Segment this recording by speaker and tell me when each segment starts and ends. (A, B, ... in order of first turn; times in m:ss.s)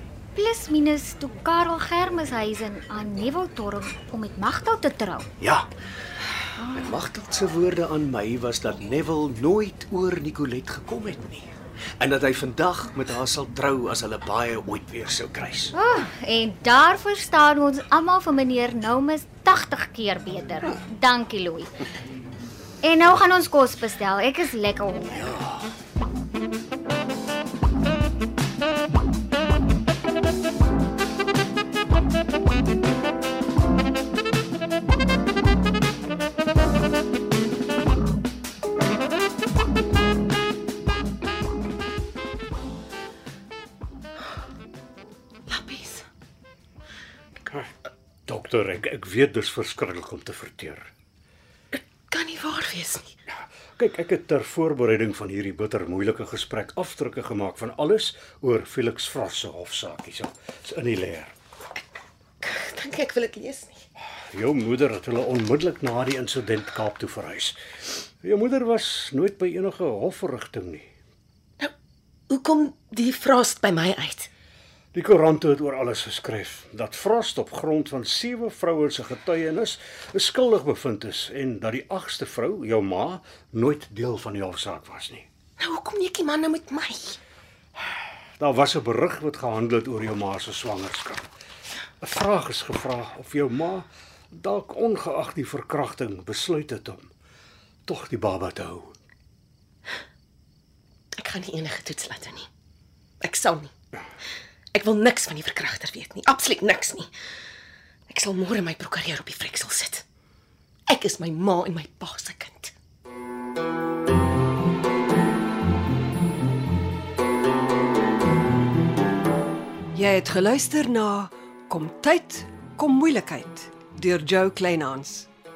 0:00.3-0:05.3 A
0:05.4-0:05.7 B
0:06.7-0:15.7 B
0:15.7-0:21.7 A
0:22.8-0:25.2 A
0:25.2-0:25.4 B
0:45.5-0:46.0 C
0:48.2-0:50.9 D
0:51.7-0:53.1 C
0:53.8-1:01.3 D
1:02.4-1:03.8 C
1:04.3-1:07.6 D
1:08.2-1:10.9 D
1:12.3-1:14.3 C
1:14.9-1:25.2 D
1:25.6-1:27.2 C
1:28.4-1:31.2 D
1:32.0-1:37.1 D
1:37.8-1:38.9 D
1:41.2-1:42.5 C
1:43.2-1:43.7 C
1:44.7-1:47.1 C
1:48.1-1:50.0 C
1:50.9-1:52.7 C
1:59.9-2:05.3 E